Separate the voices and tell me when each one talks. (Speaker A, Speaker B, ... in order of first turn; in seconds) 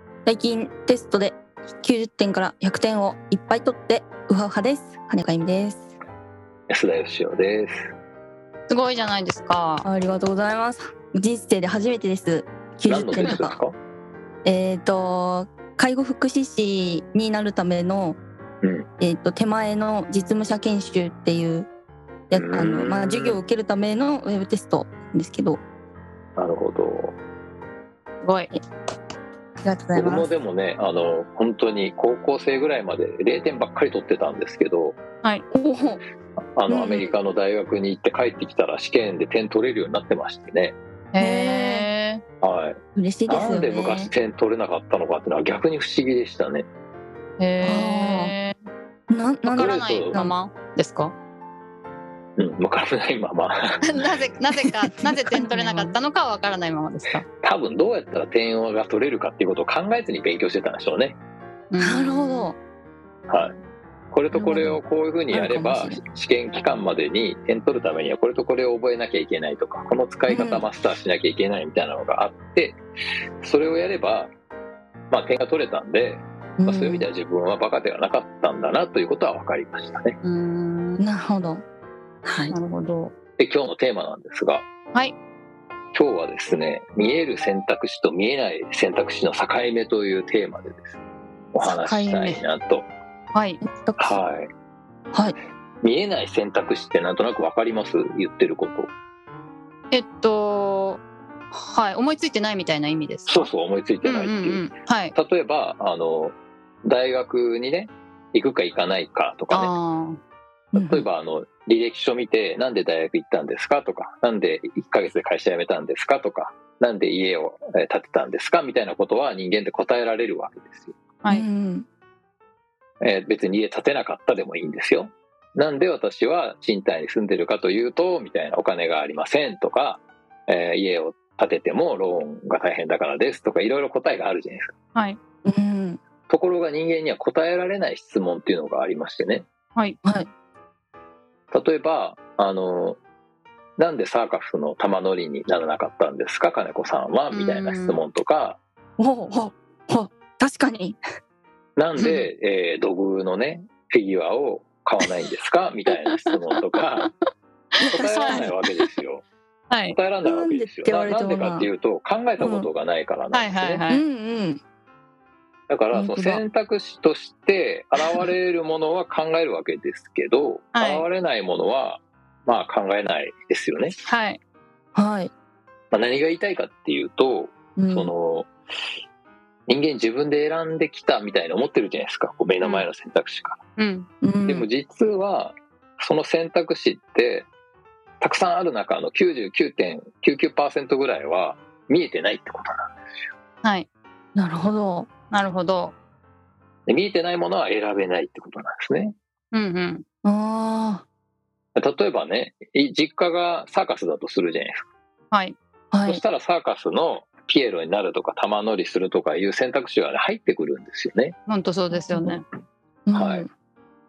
Speaker A: 0.2-5.9, 9.8-13.6, 14.4-18.2, 19.0-21.7, 22.3-25.6, 29.6-30.3, 35.5-36.0, 36.7-37.1, 41.2-41.9, 43.0-44.1, 47.6-48.3, 49.1-50.3, 54.8-55.9, 61.8-62.6, 64.3-66.0, 70.3-70.6, 76.6-77.0, 81.0-81.6, 82.2-82.5, 93.6-94.2, 110.7-111.0, 121.3-121.9, 135.4-136.0, 140.0-140.3, 149.0-151.0, 157.8-158.5, 160.2-161.7, 162.4-162.7, 163.9-164.6, 165.9-166.4, 174.9-175.3, 177.8-178.1, 184.2-184.7, 194.3-195.1, 200.2-201.0, 205.9-206.2, 211.9-212.4, 213.1-213.5
Speaker B: 6.7-7.9, 12.9-13.8, 18.6-18.9, 22.3-23.4, 26.4-27.1, 29.9-35.0, 36.5-40.8, 42.4-46.7, 49.6-50.1, 52.4-53.8, 57.4-61.2, 63.3-63.5, 64.1-72.8, 73.4-74.3, 75.1-80.2, 83.4-84.7, 85.9-91.0, 91.5-92.9, 94.0-94.5, 95.8-98.9, 103.3-109.7, 110.8-121.0, 123.0-134.7, 136.3-139.5, 141.5-143.0, 143.8-148.6, 151.8-157.1, 157.9-159.2, 159.9-163.8, 165.7-173.9, 175.9-178.5, 179.7-183.6, 184.4-187.5, 188.2-193.3, 196.9-199.2, 201.8-204.9, 206.1-211.3, 213.1-213.4
Speaker C: 8.7-9.8, 28.2-28.5, 41.1-42.2, 47.4-48.6, 49.4-51.1, 53.8-57.2, 61.7-62.1, 80.2-81.0, 82.5-83.1, 91.6-92.4, 93.3-93.6, 99.9-101.0, 101.5-103.5, 104.0-105.1, 109.5-110.2, 147.3-148.0, 152.0-152.2, 157.9-158.7, 159.7-160.0, 163.3-164.0, 170.7-171.1, 174.0-174.4, 183.8-184.1, 195.3-195.9, 199.5-200.0, 211.5-212.4